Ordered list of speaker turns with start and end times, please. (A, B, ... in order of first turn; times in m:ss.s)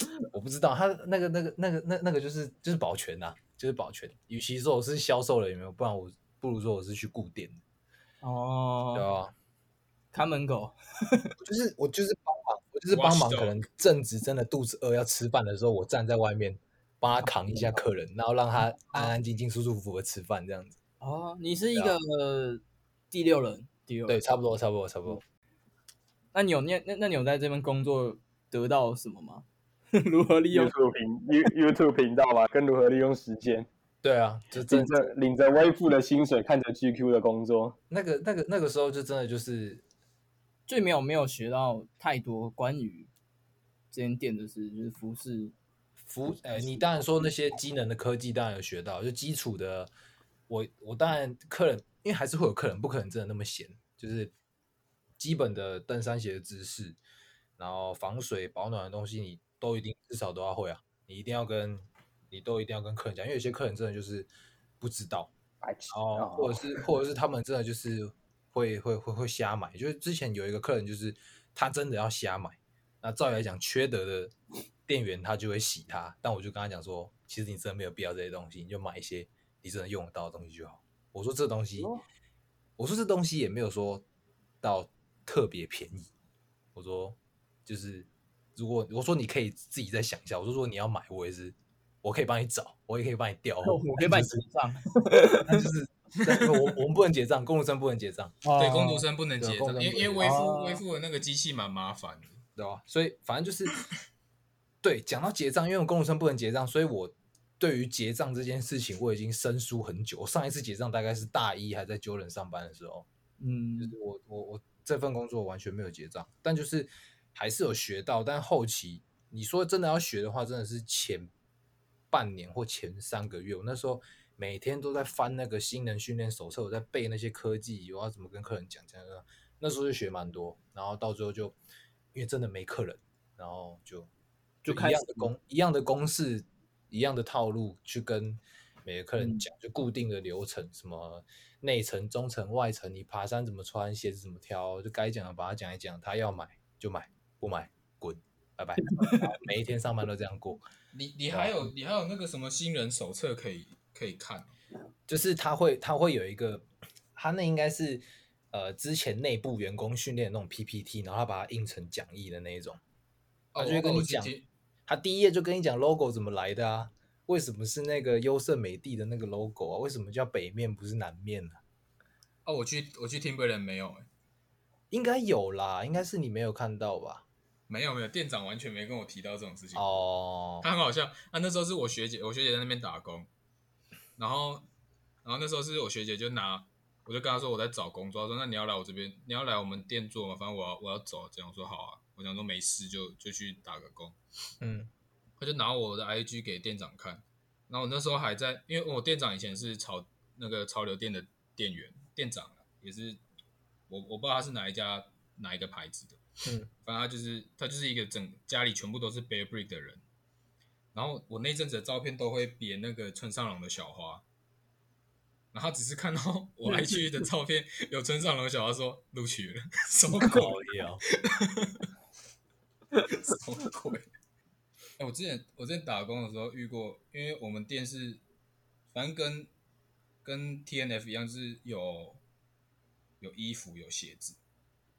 0:00.3-0:07.6 A
0:08.2-0:09.0 B
0:08.9-0:09.3 A
0:10.1-0:11.3 B
0:11.4-0:20.8 A
0:12.9-0:13.6 C
0:21.0-0:24.2 B
0:24.1-0:25.2 A
0:26.3-0:30.7 B
0:30.5-0:33.7 D
0:34.0-0:35.1 A
0:34.7-0:37.8 D
0:37.9-0:39.8 A
0:40.7-0:43.1 B
0:43.9-0:45.5 B
0:46.0-0:49.9 A
0:50.5-0:54.3 A
0:55.2-0:57.0 A
0:57.6-1:04.3 A
1:04.8-1:05.3 A
1:05.6-1:06.8 D
1:05.9-1:14.3 A
1:14.9-1:21.9 A
1:22.8-1:24.0 A
1:24.6-1:26.1 A
1:26.7-1:34.4 A
1:33.6-1:35.6 B
1:35.4-1:38.4 A
1:38.4-1:39.0 B
1:38.6-1:42.4 C
1:39.4-1:40.3 A
1:40.2-1:40.8 B
1:42.6-1:43.8 A
1:44.8-1:53.1 A
1:53.4-1:53.9 B
1:53.8-2:01.3 A
2:02.1-2:11.6 A
2:12.1-2:14.1 A
2:14.6-2:30.6 A
2:14.6-2:15.3 B
2:19.2-2:19.4 B
2:28.9-2:29.2 B
2:30.9-2:34.5 C
2:31.3-2:31.6 A
2:35.1-2:42.8 A
2:43.5-2:44.4 C
2:43.5-2:44.3 A
2:44.9-2:51.6 A
2:52.4-2:54.1 C
2:54.9-2:57.2 A
2:57.7-3:00.0 C
2:59.7-3:00.7 A
3:00.6-3:03.3 C
3:04.2-3:04.7 C
3:05.2-3:14.2 C
3:14.6-3:14.9 A
3:15.4-3:23.2 C
3:23.9-3:26.2 C
3:26.8-3:30.0 C
3:30.9-3:34.2 C
3:35.5-3:40.6 C
3:40.2-3:41.0 A
3:41.2-3:41.9 C
3:43.0-3:44.1 C
3:45.0-3:48.2 C
3:48.9-3:49.5 C
3:50.2-3:52.2 C
3:53.2-3:54.4 C